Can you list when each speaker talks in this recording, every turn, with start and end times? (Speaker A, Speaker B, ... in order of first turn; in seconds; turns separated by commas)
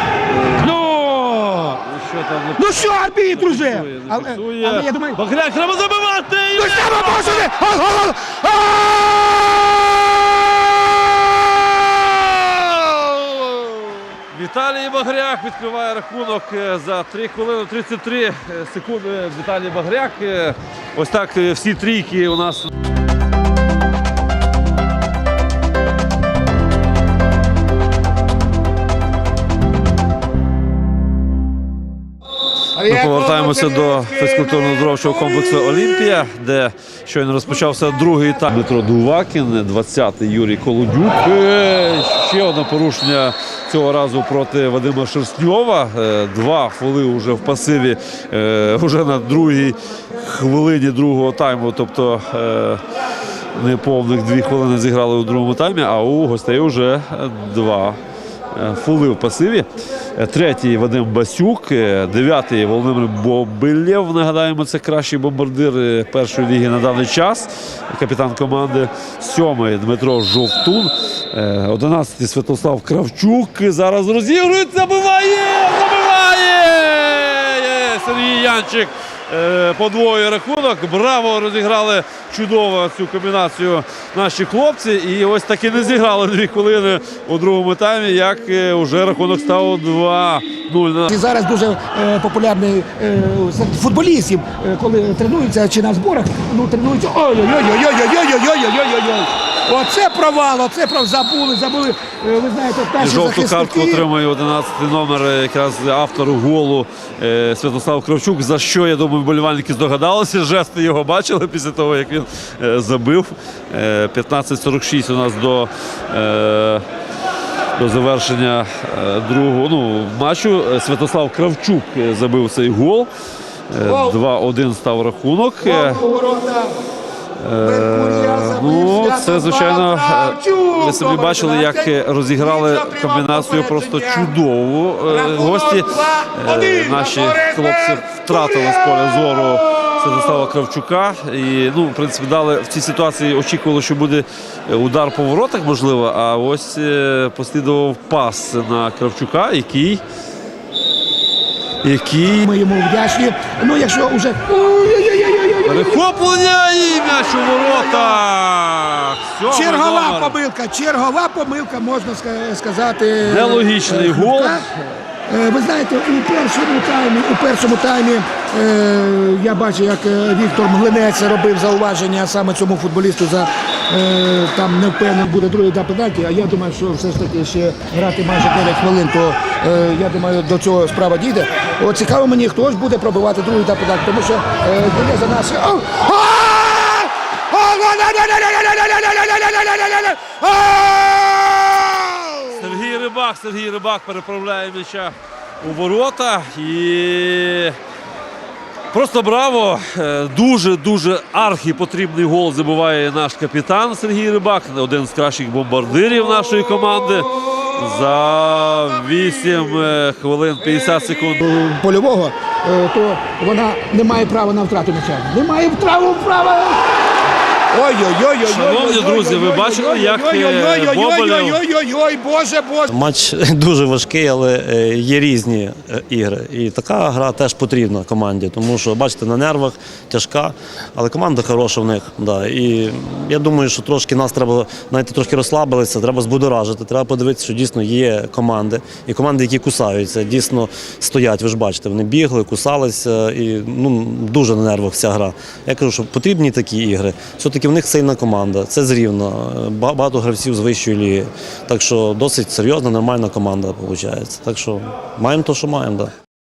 Speaker A: 0.3-0.9, Speaker B: 0.8-1.7, Speaker A: 1.7-7.5, Speaker B: 2.6-5.2, Speaker B: 6.6-9.7, Speaker A: 14.3-22.7, Speaker A: 32.8-52.8, Speaker A: 53.5-58.0, Speaker A: 58.5-91.1, Speaker B: 91.1-104.0, Speaker A: 103.0-116.8, Speaker A: 117.8-123.1, Speaker A: 123.7-126.1, Speaker B: 126.1-126.8, Speaker A: 127.4-150.0, Speaker B: 127.7-128.6, Speaker B: 130.4-131.8, Speaker A: 151.8-152.5, Speaker B: 152.5-156.1, Speaker A: 155.7-160.4, Speaker B: 157.4-158.2, Speaker B: 159.5-164.7, Speaker A: 163.2-164.8, Speaker B: 165.3-192.5, Speaker A: 192.5-197.8, Speaker A: 198.9-211.4, Speaker B: 211.5-216.8, Speaker B: 217.7-222.9, Speaker A: 218.4-221.6, Speaker C: 222.9-256.1